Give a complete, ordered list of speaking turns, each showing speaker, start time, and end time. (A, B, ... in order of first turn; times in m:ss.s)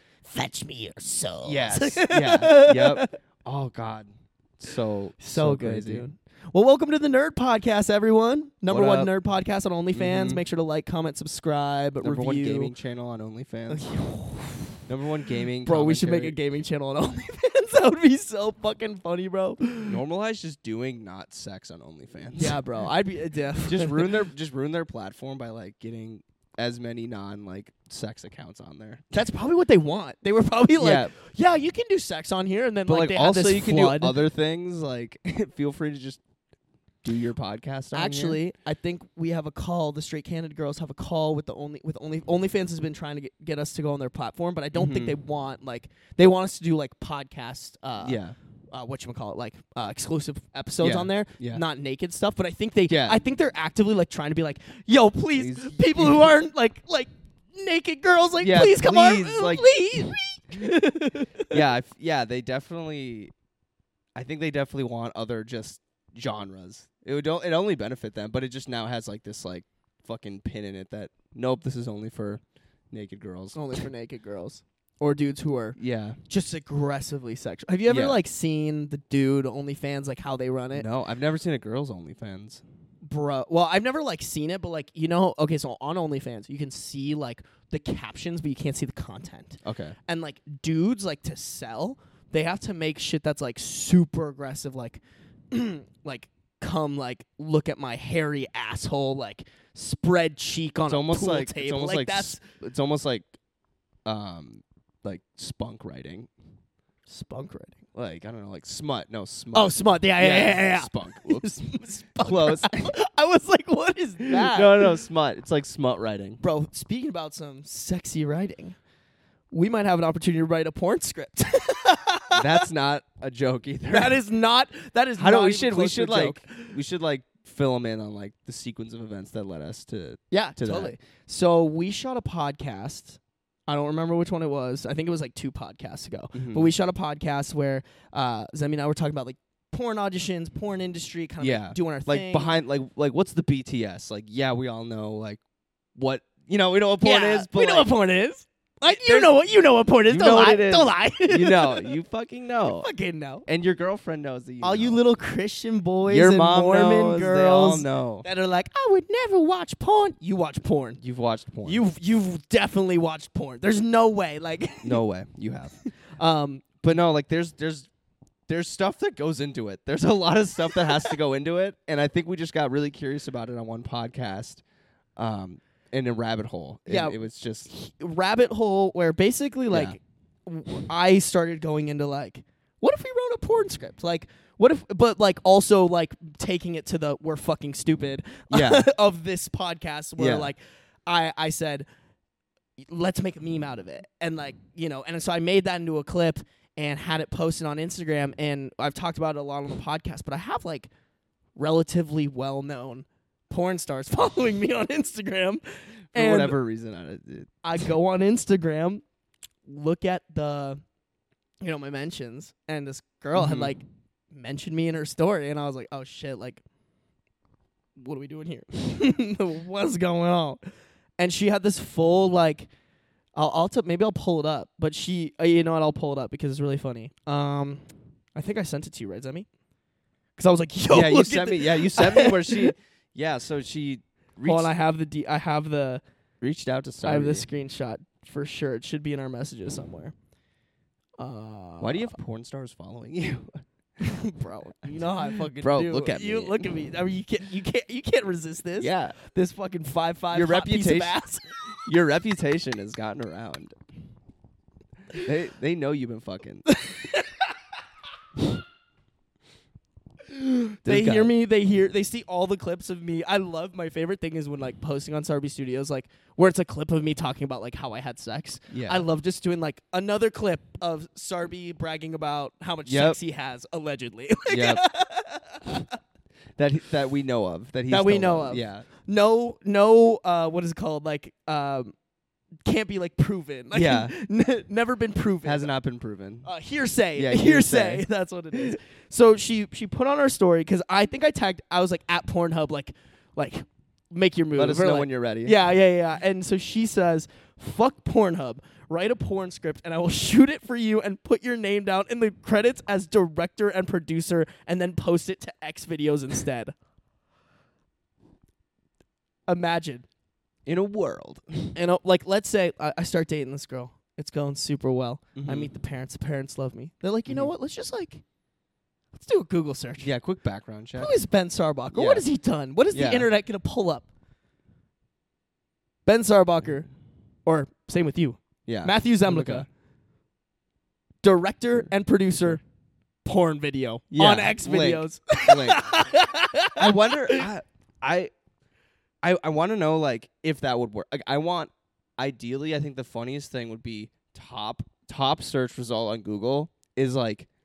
0:00.2-0:03.1 A
0:01.4-0:06.1 B
0:05.2-0:12.7 A
0:08.7-0:09.1 B
0:09.9-0:10.4 B
0:12.0-0:13.8 B
0:13.7-0:14.8 A
0:14.8-0:16.3 B
0:15.6-0:20.0 A
0:19.8-0:22.6 B
0:22.3-0:24.2 A
0:23.6-0:29.1 B
0:29.1-0:34.2 A
0:30.8-0:31.1 B
0:32.9-0:36.2 B
0:37.0-0:38.4 B
0:37.9-0:48.2 A
0:44.8-0:45.2 B
0:48.0-0:48.4 B
0:48.7-1:01.6 A
0:50.8-0:51.6 B
0:52.9-0:53.2 B
0:55.4-0:56.3 B
0:58.4-1:00.1 B
1:01.5-1:03.3 B
1:04.2-1:13.8 B
1:13.6-1:15.8 A
1:15.8-1:16.2 B
1:16.3-1:20.9 A
1:17.9-1:18.2 B
1:20.7-1:22.6 B
1:23.0-1:42.4 A
1:29.6-1:30.0 B
1:40.9-1:43.3 B
1:44.0-1:46.3 B
1:47.1-1:47.8 A
1:47.9-1:52.9 B
1:49.5-1:55.0 A
1:54.3-1:56.4 B
1:56.4-1:58.8 A
1:59.5-2:02.6 A
2:02.3-2:04.2 B
2:03.9-2:06.8 A
2:05.2-2:10.9 B
2:10.3-2:22.5 A
2:16.3-2:16.7 B
2:21.4-2:25.4 B
2:26.0-2:27.9 B
2:27.0-2:31.9 A
2:28.9-2:29.3 B
2:30.1-2:32.9 B
2:32.8-2:33.4 A
2:33.4-2:35.0 B
2:34.6-2:41.0 A
2:36.1-2:38.2 B
2:41.0-2:41.8 B
2:41.6-2:45.0 A
2:44.8-2:45.8 B
2:45.9-2:46.6 A
2:46.8-2:47.9 B
2:48.5-2:54.6 B
2:55.2-2:57.7 B
2:56.9-3:11.9 A
2:59.7-3:00.0 B
3:08.5-3:08.9 B
3:10.2-3:10.5 B
3:12.8-3:20.9 A
3:21.6-3:25.6 A
3:26.1-3:27.5 B
3:26.1-3:26.6 A
3:27.6-3:29.0 A
3:29.6-3:30.8 A
3:31.6-3:36.6 A
3:33.3-3:33.8 B
3:38.0-3:40.6 A
3:41.2-3:42.7 A
3:43.3-3:49.5 A
3:50.4-3:52.7 A
3:50.9-3:54.7 B
3:54.4-3:56.0 A
3:56.4-3:57.5 B
3:57.0-4:00.1 A
4:01.2-4:02.1 A
4:01.8-4:03.6 B
4:04.0-4:11.4 A
4:05.6-4:06.7 B
4:08.8-4:09.2 B
4:10.3-4:11.2 B
4:11.8-4:13.7 B
4:15.1-4:16.7 B
4:16.8-4:17.4 A
4:20.2-4:36.0 A
4:20.8-4:21.3 B
4:28.7-4:29.1 B
4:32.9-4:33.2 B
4:34.5-4:34.8 B
4:36.6-4:38.9 B
4:37.9-4:41.9 A
4:42.6-4:45.7 A
4:43.7-4:44.1 B
4:45.4-4:46.5 B
4:46.4-5:06.7 A
4:47.1-4:48.0 B
4:54.6-4:55.6 B
5:09.5-5:10.1 A
5:10.7-5:11.8 B
5:11.7-5:18.2 A
5:15.3-5:15.7 B
5:19.1-5:20.1 A
5:20.0-5:21.1 B
5:21.0-5:24.1 A
5:21.9-5:22.2 B
5:22.9-5:23.3 B
5:26.0-5:26.9 A
5:27.4-5:29.7 A
5:28.7-5:29.7 B
5:31.2-5:32.6 A
5:33.2-5:37.5 A
5:34.1-5:36.0 B
5:36.7-5:38.3 B
5:39.2-5:47.5 B